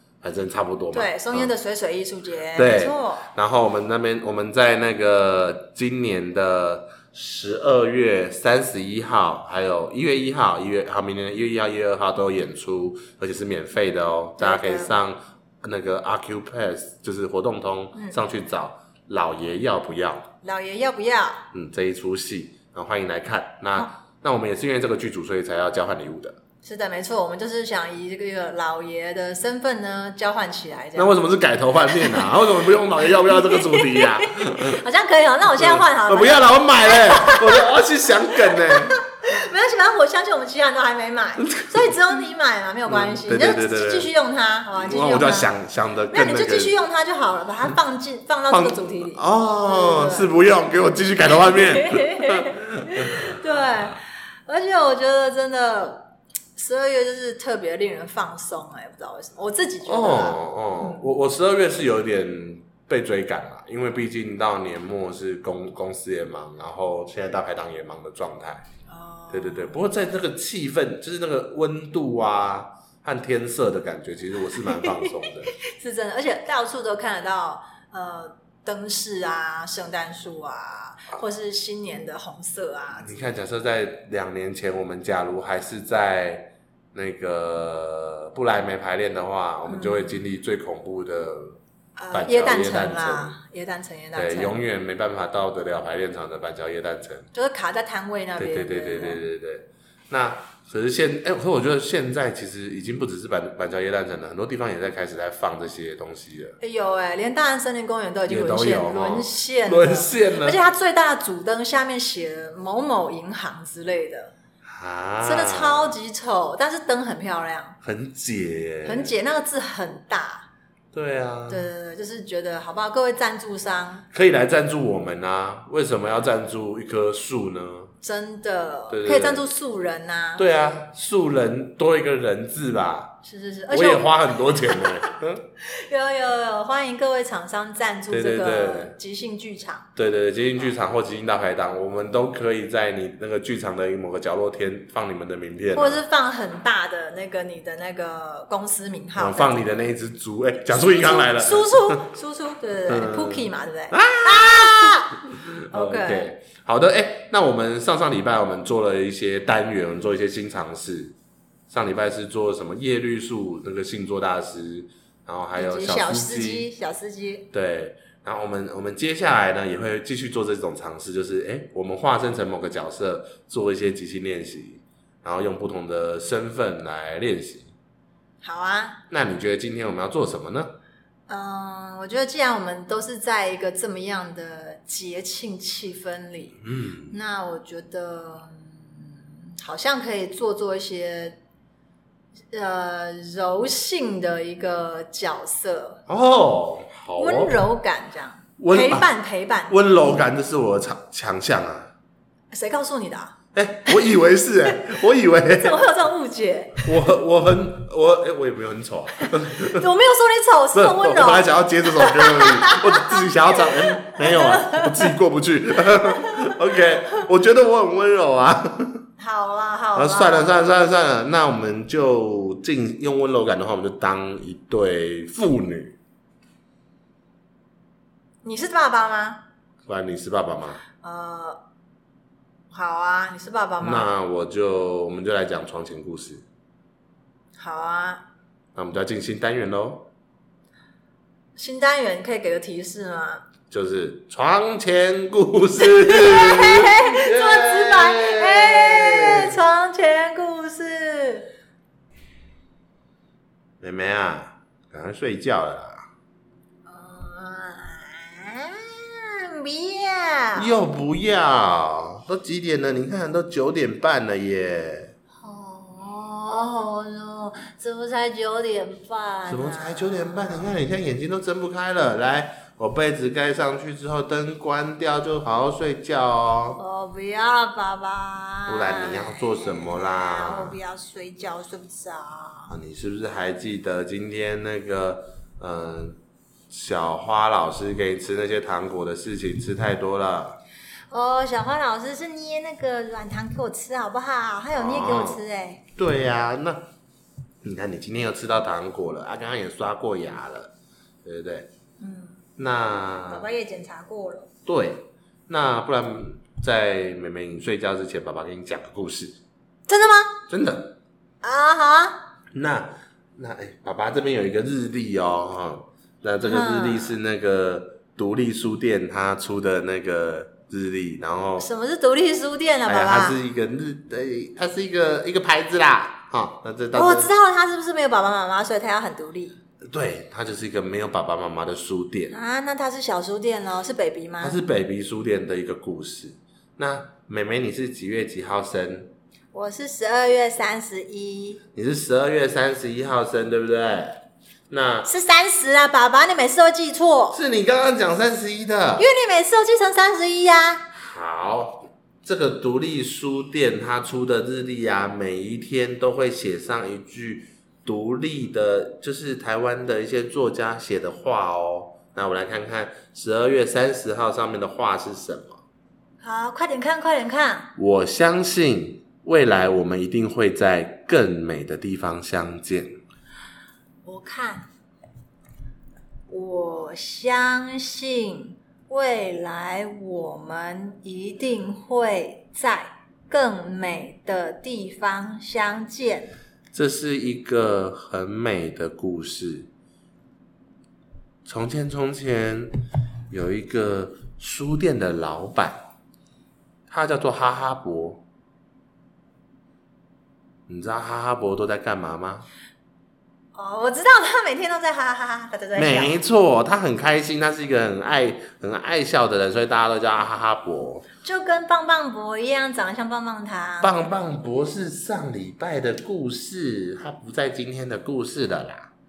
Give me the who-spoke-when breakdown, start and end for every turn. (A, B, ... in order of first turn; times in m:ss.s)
0:00.2-0:01.5 A
0:00.9-0:03.2 B
0:02.5-0:20.3 A
0:14.4-0:15.0 B
0:20.4-0:21.4 B
0:21.5-0:26.4 A
0:26.6-0:31.2 B
0:31.0-0:34.8 A
0:31.9-0:32.4 B
0:33.0-0:45.5 B
0:35.5-0:39.0 A
0:41.4-0:41.9 A
0:42.8-0:44.1 A
0:44.8-0:46.7 A
0:46.1-0:50.3 B
0:48.5-0:53.4 A
0:51.3-1:01.0 B
0:59.8-1:08.6 A
1:08.9-1:09.8 B
1:09.3-1:15.5 A
1:14.8-1:23.1 B
1:22.9-1:31.6 A
1:29.7-1:30.2 B
1:32.0-1:34.6 B
1:32.1-1:33.4 A
1:34.1-1:37.3 A
1:37.3-1:39.2 B
1:38.4-1:46.6 A
1:46.6-1:54.3 B
1:48.3-1:50.6 A
1:54.6-1:56.0 A
1:55.2-1:57.8 B
1:57.8-1:59.1 A
1:58.8-2:00.5 B
2:00.9-2:01.7 A
2:01.5-2:04.0 B
2:04.1-2:07.9 A
2:08.0-2:10.4 B
2:08.9-2:09.4 A
2:10.4-2:13.2 A
2:13.2-2:19.9 B
2:13.7-2:15.4 A
2:18.1-2:18.9 A
2:20.0-2:26.0 A
2:25.7-2:29.6 B
2:29.2-2:32.0 A
2:30.7-2:35.2 B
2:32.9-2:41.1 A
2:35.7-2:36.3 B
2:41.7-2:46.7 A
2:45.6-2:47.5 B
2:47.5-2:57.7 A
2:58.4-2:59.0 B
2:59.1-3:00.8 A
3:01.3-3:11.4 B
3:06.6-3:07.1 A
3:12.5-3:16.0 B
3:16.1-3:17.6 A
3:17.2-3:19.8 B
3:18.6-3:19.1 A
3:19.7-3:21.9 A
3:22.5-3:23.3 B
3:23.5-3:25.8 A
3:24.7-3:24.9 B
3:25.5-3:26.9 B
3:26.8-3:29.8 A
3:29.2-3:35.1 B
3:30.7-3:39.0 A
3:39.2-3:40.7 B
3:39.9-3:46.0 A
3:48.4-3:49.4 B
3:49.9-3:50.8 A
3:51.0-3:51.6 B
3:52.7-3:54.1 B
3:53.8-3:56.4 A
3:57.6-3:58.2 B
3:58.8-4:00.1 A
4:01.6-4:03.4 B
4:03.7-4:09.5 A
4:05.8-4:11.5 B
4:13.8-4:16.1 A
4:16.8-4:20.7 B
4:20.5-4:25.1 A
4:25.4-4:30.7 B
4:29.5-4:36.8 A
4:36.8-4:42.7 B
4:38.7-4:40.8 A
4:42.7-4:46.2 A
4:46.7-4:50.6 A
4:51.1-4:55.8 B
4:54.8-4:55.4 A
4:56.0-4:56.8 A
4:57.6-5:00.7 A
5:01.2-5:01.7 A
5:02.0-5:02.4 B
5:02.6-5:03.5 A
5:03.3-5:04.5 B
5:04.6-5:09.4 A
5:09.9-5:10.3 B
5:10.5-5:11.0 A
5:11.4-5:12.2 B
5:12.5-5:21.7 A
5:16.4-5:17.2 B
5:21.6-5:23.4 B
5:22.9-5:27.3 A
5:26.9-5:29.6 B
5:29.9-5:32.3 A
5:32.3-5:34.6 B
5:34.4-5:39.1 A
5:39.5-5:41.6 B
5:41.8-5:45.1 A
5:45.0-5:47.4 B
5:47.3-5:49.1 A
5:49.0-5:50.8 B
5:50.9-6:05.6 A
6:06.2-6:07.7 B
6:07.8-6:13.0 A
6:14.0-6:14.7 B
6:16.3-6:26.3 B
6:26.7-6:29.7 A
6:31.4-6:35.8 A
6:36.9-6:38.2 A
6:40.7-6:42.5 A
6:43.5-6:46.1 B
6:45.8-6:51.0 A
6:51.2-6:54.0 B
6:53.8-6:58.9 A